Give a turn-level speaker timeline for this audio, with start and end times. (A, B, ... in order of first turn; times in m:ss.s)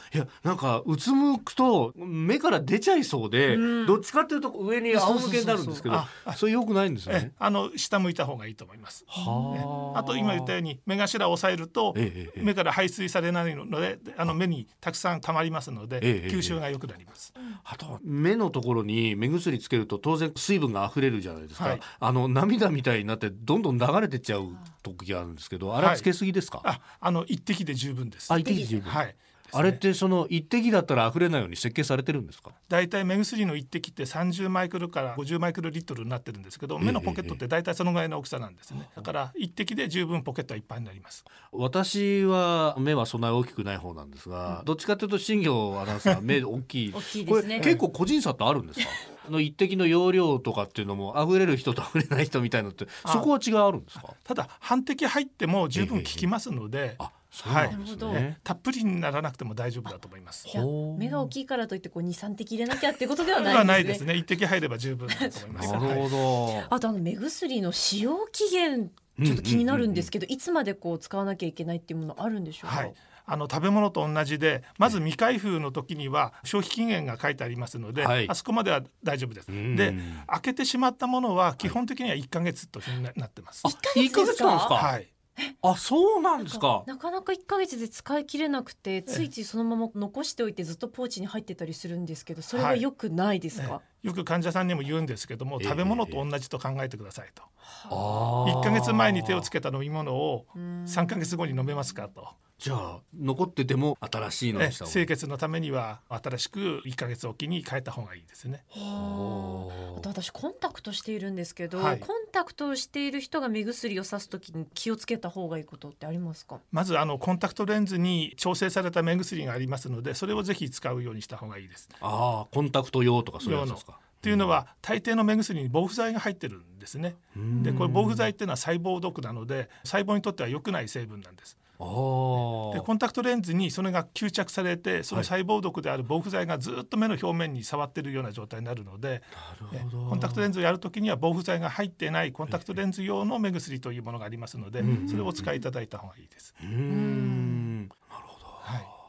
0:00.1-0:07.3 A
0:03.5-0:04.0 B
0:04.9-0:05.9 B
0:05.9-0:06.4 C
0:07.1-0:17.3 C
0:09.1-0:10.5 A
0:09.2-0:10.1 B
0:12.0-0:12.5 A
0:16.0-0:16.6 A
0:17.6-0:26.6 A
0:21.6-0:21.8 C
0:25.8-0:26.1 C
0:26.6-0:29.8 C
0:28.3-0:29.0 A
0:28.4-0:28.8 B
0:29.5-0:32.5 A
0:32.7-0:41.3 C
0:36.8-0:37.4 A
0:41.5-0:54.1 A
0:46.9-0:47.8 B
0:53.0-0:53.3 C
0:54.1-1:00.5 C
0:55.7-0:56.3 A
0:57.0-0:58.4 A
0:57.6-0:58.3 B
1:00.5-1:01.3 A
1:00.5-1:04.0 B
1:03.3-1:06.1 C
1:05.1-1:12.9 B
1:05.6-1:06.7 A
1:09.2-1:10.1 A
1:12.6-1:23.7 C
1:18.0-1:18.3 A
1:19.5-1:20.3 A
1:23.6-1:24.8 B
1:23.6-1:24.9 A
1:24.8-1:25.1 C
1:25.6-1:26.9 A
1:26.4-1:33.8 B
1:32.5-1:32.8 C
1:33.5-1:37.5 C
1:35.6-1:36.2 A
1:37.8-1:38.3 B
1:37.9-1:39.5 A
1:38.4-1:42.4 C
1:40.6-1:42.0 B
1:42.6-1:45.1 A
1:44.6-1:48.6 C
1:48.7-1:56.6 B
1:48.7-1:50.1 A
1:51.7-1:52.1 C
1:56.7-2:01.9 C
2:02.0-2:04.5 A
2:03.4-2:11.6 C
2:07.4-2:08.0 A
2:07.6-2:08.2 B
2:11.8-2:12.9 A
2:12.4-2:26.6 C
2:19.4-2:20.5 A
2:24.8-2:25.1 B
2:24.8-2:25.5 A
2:26.6-2:28.7 A
2:26.9-2:27.7 B
2:28.6-2:28.9 C